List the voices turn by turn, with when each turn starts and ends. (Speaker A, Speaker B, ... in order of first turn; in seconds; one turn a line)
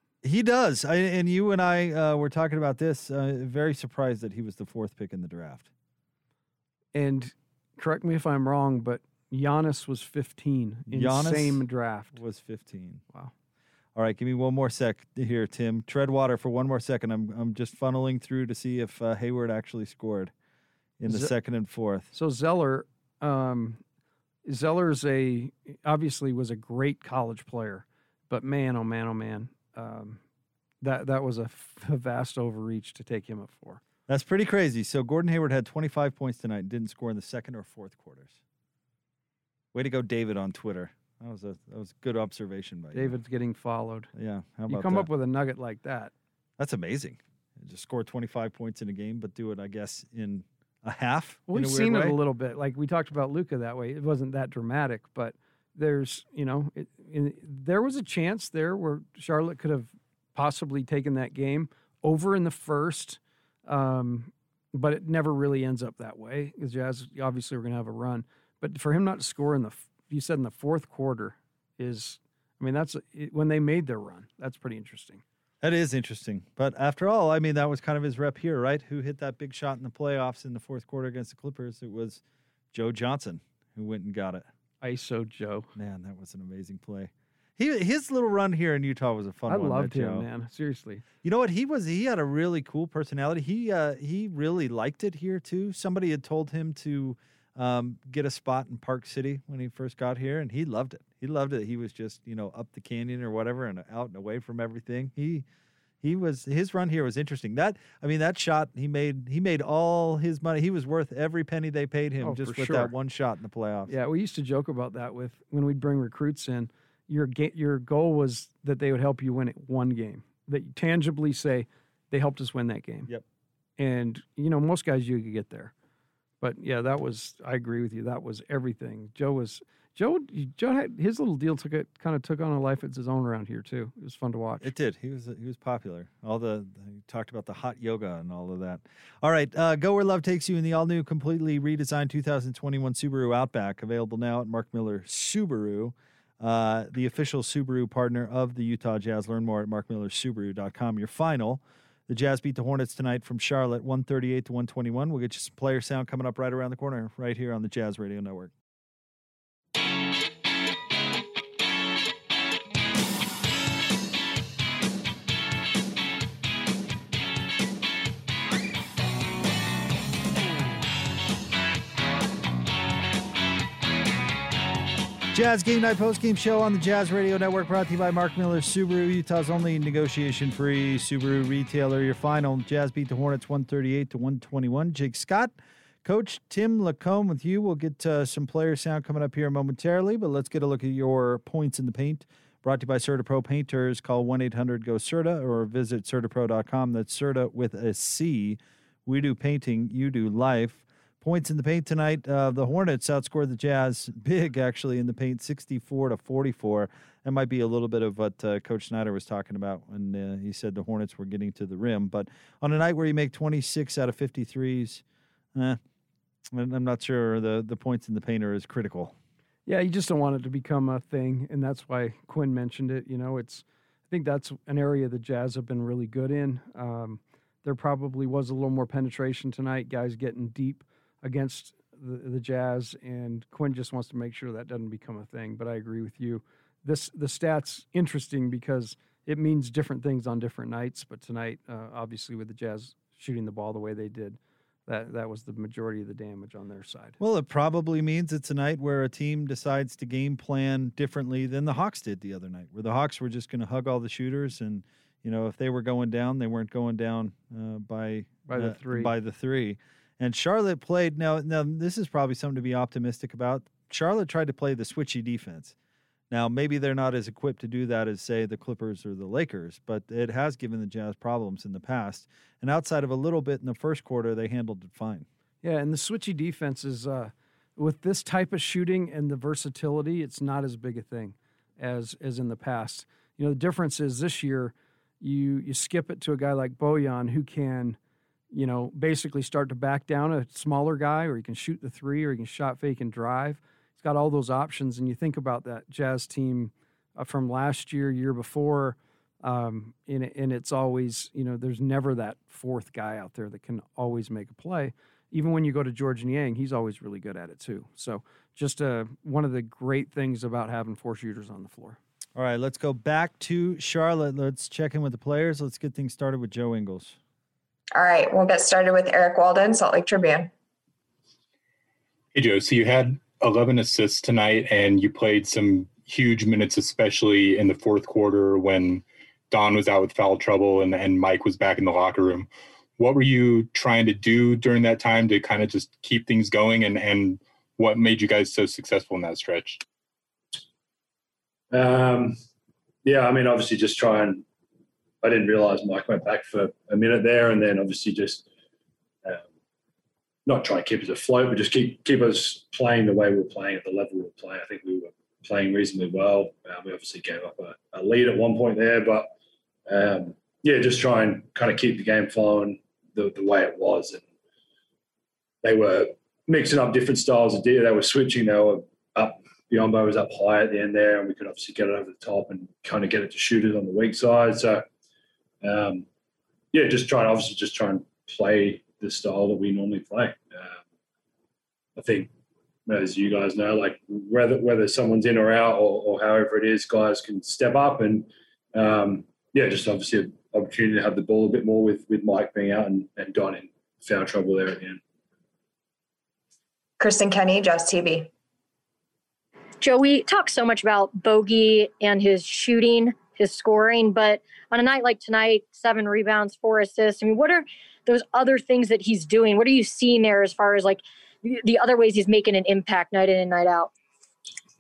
Speaker A: 0.2-5.7
Speaker B: 6.9-12.2
Speaker A: 10.9-11.6
Speaker A: 12.1-13.0
Speaker A: 13.9-20.3
Speaker A: 21.0-22.1
Speaker B: 21.0-21.3
Speaker B: 22.1-23.8
Speaker B: 24.4-30.2
Speaker B: 30.8-33.8
Speaker A: 34.1-38.4
Speaker A: 39.7-43.1
Speaker B: 42.9-44.1
Speaker A: 44.1-45.1
Speaker B: 44.7-46.1
Speaker A: 46.6-52.2
Speaker B: 51.5-75.2
Speaker A: 75.6-82.2
Speaker A: 82.7-84.5
Speaker B: 84.8-85.7
Speaker A: 85.8-90.2
Speaker B: 89.5-91.0
Speaker A: 91.2-105.4
Speaker A: 106.0-113.9
Speaker B: 112.2-112.9
Speaker B: 113.9-123.1
Speaker B: 123.8-125.7
Speaker B: 126.4-134.7
Speaker A: 134.6-158.5
Speaker A: 175.3-215.0
Speaker A: 216.5-219.1
Speaker B: 219.7-247.2
Speaker A: 247.2-265.7
Speaker B: 258.5-259.1
Speaker A: 266.3-275.2
Speaker B: 275.6-288.0
Speaker B: 288.5-312.0
Speaker A: 312.4-317.1
Speaker C: 317.9-320.5
Speaker D: 322.3-339.8
Speaker E: 341.7-342.4
Speaker E: 343.0-344.4
Speaker E: 345.2-348.4
Speaker E: 350.4-359.3
Speaker E: 359.9-364.2
Speaker E: 365.6-374.8
Speaker E: 375.6-376.1
Speaker E: 376.7-380.8
Speaker E: 381.9-382.3
Speaker E: 382.9-395.0
Speaker C: 397.0-398.3
Speaker F: 399.8-413.9